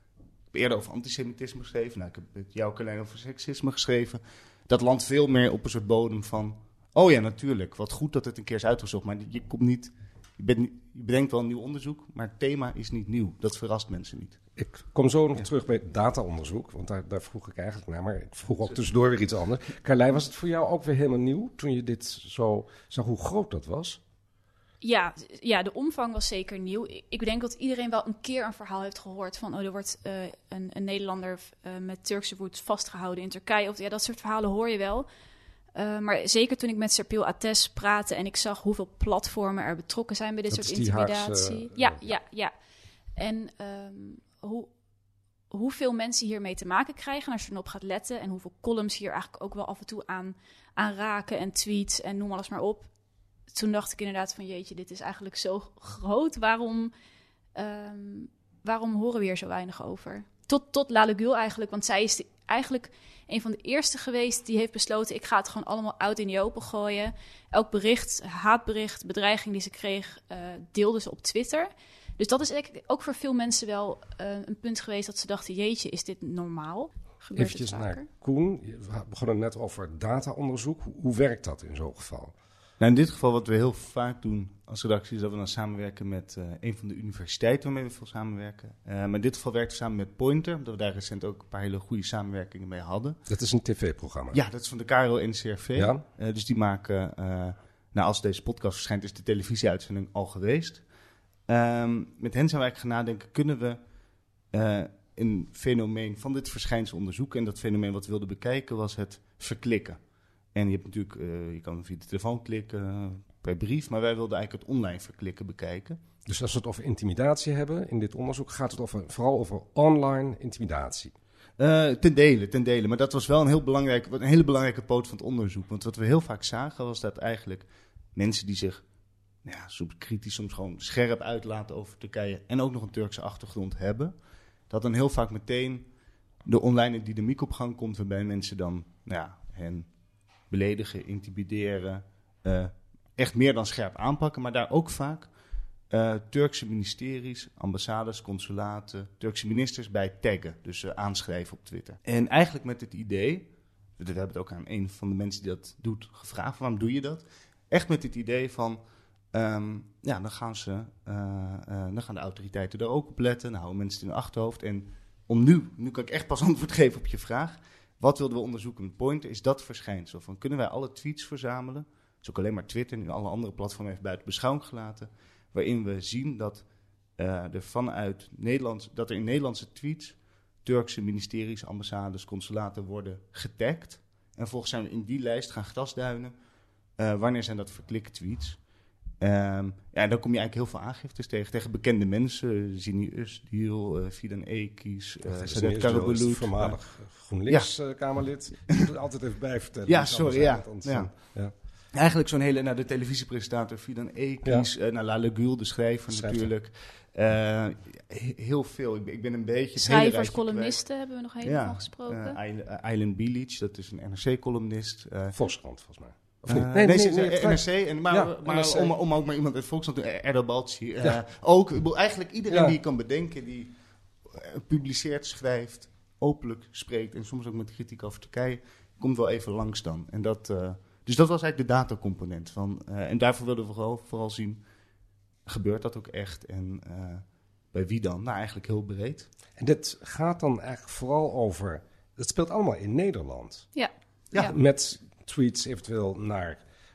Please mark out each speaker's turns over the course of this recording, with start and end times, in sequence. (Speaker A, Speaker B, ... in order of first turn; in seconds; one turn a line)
Speaker A: 0.5-14.4
Speaker B: 14.6-24.0
Speaker C: 24.8-35.1
Speaker C: 35.8-42.5
Speaker B: 40.5-42.1
Speaker C: 43.2-44.7
Speaker C: 45.5-52.9
Speaker C: 53.5-56.9
Speaker C: 57.5-78.1
Speaker B: 77.4-82.3
Speaker A: 82.8-93.2
Speaker B: 93.3-94.4
Speaker A: 94.3-100.8
Speaker B: 95.8-96.0
Speaker A: 101.5-103.8
Speaker A: 104.5-110.0
Speaker A: 110.5-116.0
Speaker B: 116.3-121.1
Speaker A: 121.6-128.8
Speaker A: 129.4-134.1
Speaker A: 134.7-135.9
Speaker A: 136.5-139.9
Speaker A: 140.5-145.3
Speaker A: 145.9-158.8
Speaker A: 159.3-176.7
Speaker A: 177.2-186.3
Speaker A: 187.0-188.6
Speaker A: 189.2-196.8
Speaker B: 195.3-201.5
Speaker A: 197.5-197.7
Speaker A: 199.9-201.3
Speaker A: 201.9-210.8
Speaker B: 206.1-206.5
Speaker C: 209.8-212.4
Speaker A: 211.4-215.4
Speaker B: 215.3-218.9
Speaker A: 216.5-223.7
Speaker B: 222.5-222.8
Speaker A: 224.3-234.6
Speaker A: 235.5-239.3
Speaker B: 239.6-243.7
Speaker C: 243.8-244.5
Speaker B: 244.4-246.6